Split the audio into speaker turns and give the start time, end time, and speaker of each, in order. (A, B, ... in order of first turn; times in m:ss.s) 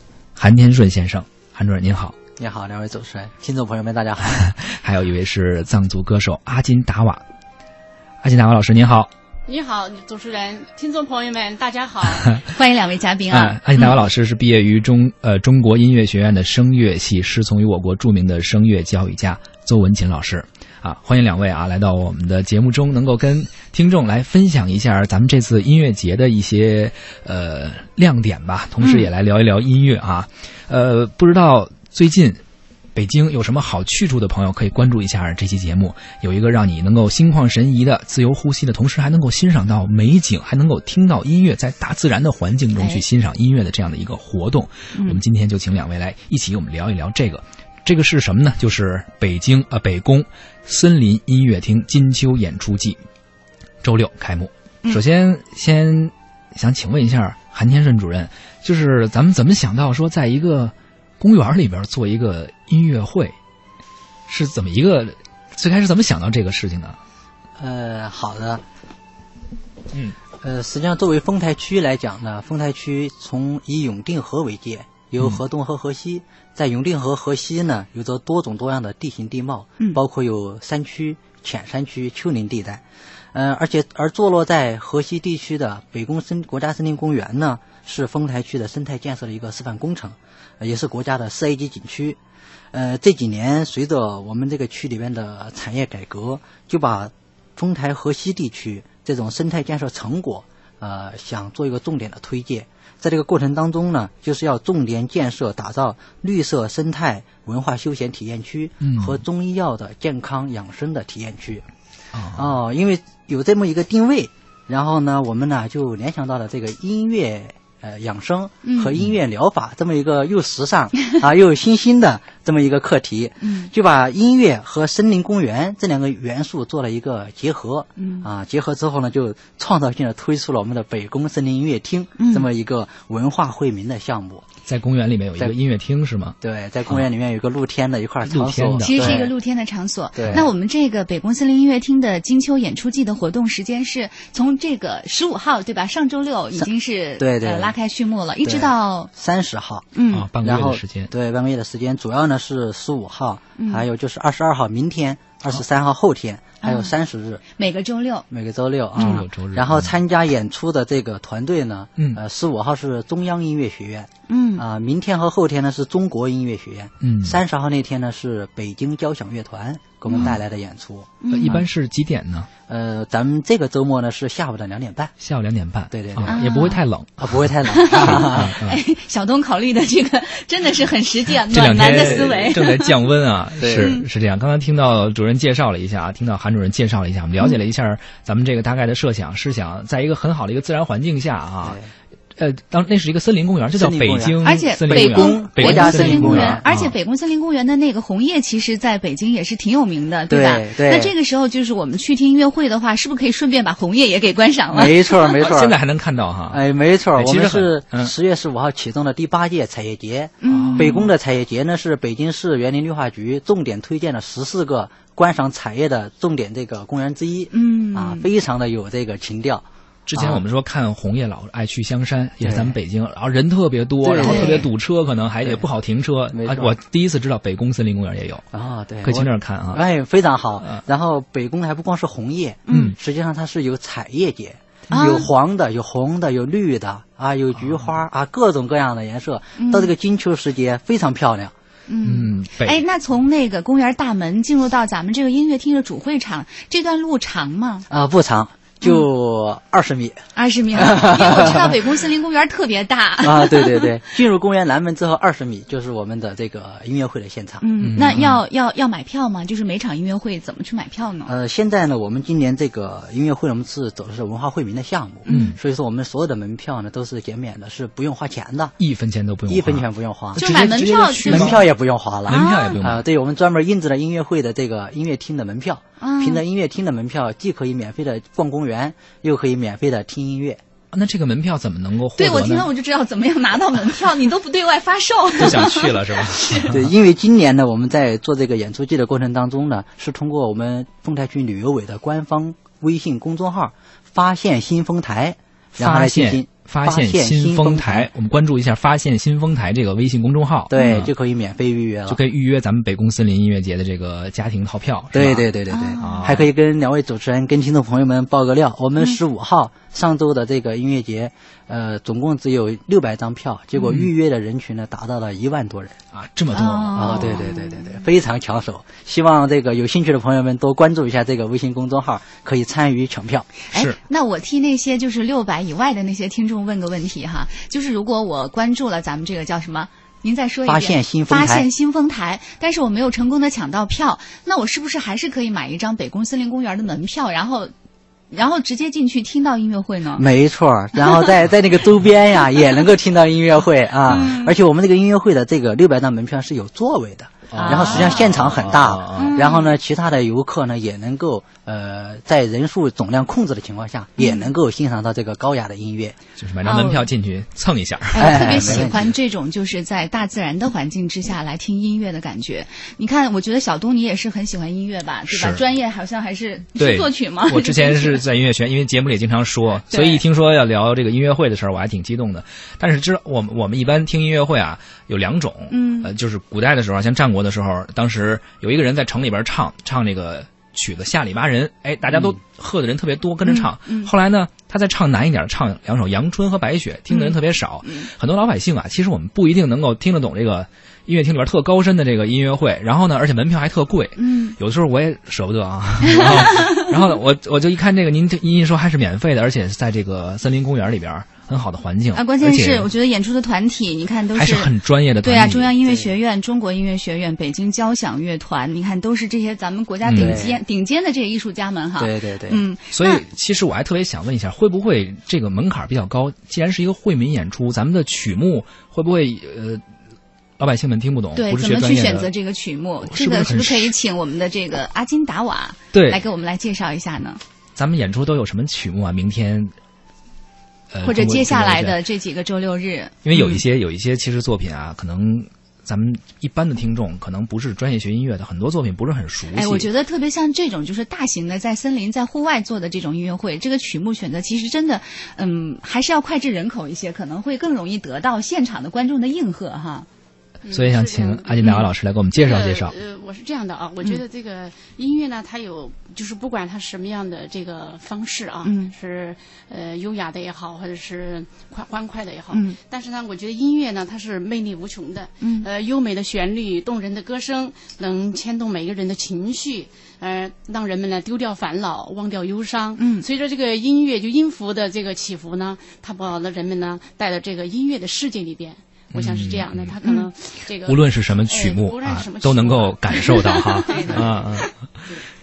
0:00.4-0:02.1 A
0:02.4-0:04.5 B
0:04.4-0:07.2 A
0:08.2-0:09.1 A
0:09.4-0:12.4 C
0:12.5-0:13.9 D
0:13.3-0:32.4 A
0:28.8-0:29.1 D
0:33.0-0:53.0 A
0:42.8-0:43.0 D
0:53.8-1:03.4 A
1:04.3-1:07.0 A
1:07.6-1:08.6 B
1:10.4-1:32.2 B
1:32.7-1:51.6 B
1:48.8-1:49.2 A
1:52.1-1:52.5 A
1:52.3-2:14.5 B
1:58.6-1:58.9 D
2:03.4-2:03.7 D
2:08.0-2:08.3 D
2:12.2-2:12.5 D
2:14.7-2:16.4 A
2:16.4-2:19.3 B
2:18.2-2:19.2 A
2:18.8-2:29.1 D
2:20.2-2:20.5 B
2:26.6-2:27.8 B
2:28.4-2:29.9 B
2:29.9-2:30.3 D
2:30.1-2:31.1 A
2:30.4-2:37.4 B
2:33.6-2:33.8 D
2:36.6-2:36.9 D
2:37.6-2:38.2 D
2:38.3-2:51.6 B
2:39.0-2:39.9 A
2:44.3-2:44.6 D
2:47.0-2:47.4 A
2:50.1-2:50.4 D
2:51.2-2:51.6 D
2:51.3-2:52.5 A
2:52.7-2:55.1 B
2:55.2-2:58.8 A
2:55.9-2:56.6 B
2:56.3-2:56.8 D
2:57.2-2:58.6 B
2:57.7-3:03.0 D
3:01.5-3:11.8 A
3:02.0-3:02.4 B
3:03.6-3:03.9 B
3:03.7-3:04.0 D
3:11.6-3:11.9 B
3:12.4-3:16.9 A
3:13.8-3:16.7 B
3:14.4-3:25.4 D
3:20.3-3:21.1 B
3:24.7-3:25.8 B
3:25.4-3:26.6 A
3:26.5-3:40.4 B
3:27.2-3:28.1 A
3:30.4-3:31.1 D
3:30.5-3:31.0 A
3:37.5-3:38.3 D
3:40.1-3:48.4 A
3:42.4-3:42.8 B
3:44.0-3:44.7 B
3:44.2-3:44.7 D
3:46.3-3:46.8 B
3:48.5-4:01.5 B
3:49.0-3:49.8 A
3:52.7-3:52.9 D
3:52.7-3:52.9 A
3:54.9-3:55.3 D
3:59.6-3:59.9 D
4:01.9-4:07.9 D
4:02.0-4:02.8 A
4:07.9-4:11.8 B
4:10.4-4:14.0 D
4:13.2-4:17.6 B
4:17.6-4:21.3 D
4:17.8-4:18.4 A
4:21.2-4:28.8 B
4:25.2-4:25.6 D
4:25.3-4:25.6 A
4:28.8-4:31.6 A
4:29.5-4:30.6 B
4:30.3-4:31.7 D
4:31.2-4:40.6 B
4:32.3-4:33.0 A
4:32.3-4:32.8 D
4:36.0-4:36.4 D
4:40.9-4:42.7 A
4:42.2-4:46.7 D
4:45.3-4:46.8 A
4:46.6-4:58.1 B
4:55.8-5:01.1 A
5:00.7-5:02.2 B
5:00.8-5:01.0 D
5:02.1-5:05.5 A
5:05.1-5:15.9 B
5:05.7-5:06.4 D
5:06.0-5:06.4 A
5:13.8-5:14.1 A
5:16.1-5:17.3 A
5:16.5-5:18.0 D
5:16.9-5:23.5 B
5:23.7-5:37.7 D
5:23.7-5:24.0 A
5:30.6-5:31.7 B
5:38.3-5:40.2 D
5:40.2-5:56.2 B
5:41.0-5:41.3 D
5:44.1-5:44.5 D
5:47.5-5:49.4 A
5:47.5-5:48.4 D
5:49.1-5:49.8 D
5:54.2-5:54.5 D
5:56.4-5:59.0 A
5:56.6-5:57.1 D
5:58.1-6:08.2 D
5:58.2-5:59.0 B
6:05.3-6:05.6 A
6:06.8-6:42.9 A
6:09.9-6:10.2 D
6:15.7-6:16.1 D
6:23.4-6:24.1 D
6:27.1-6:28.1 D
6:34.2-6:34.6 D
6:36.3-6:36.8 D
6:42.1-6:53.2 D
6:44.3-6:45.7 A
6:45.8-6:46.1 B
6:50.0-6:50.4 A
6:50.1-6:50.6 B
6:52.0-6:52.6 B
6:52.9-6:59.8 A
7:00.6-7:02.3 A
7:01.3-7:07.4 D
7:03.0-7:03.9 A
7:05.9-7:06.2 A
7:07.8-7:09.7 A
7:10.9-7:12.0 A
7:11.0-7:13.6 D
7:13.2-7:19.9 A
7:19.5-7:30.0 D
7:30.6-7:31.6 C
7:30.7-7:32.9 A
7:31.6-7:31.9 D
7:32.3-8:05.2 C
7:38.6-7:38.9 D
7:42.5-7:42.8 D
7:45.4-7:45.6 D
7:53.0-7:53.2 D
7:59.1-8:00.0 A
8:00.8-8:04.7 A
8:03.5-8:04.0 D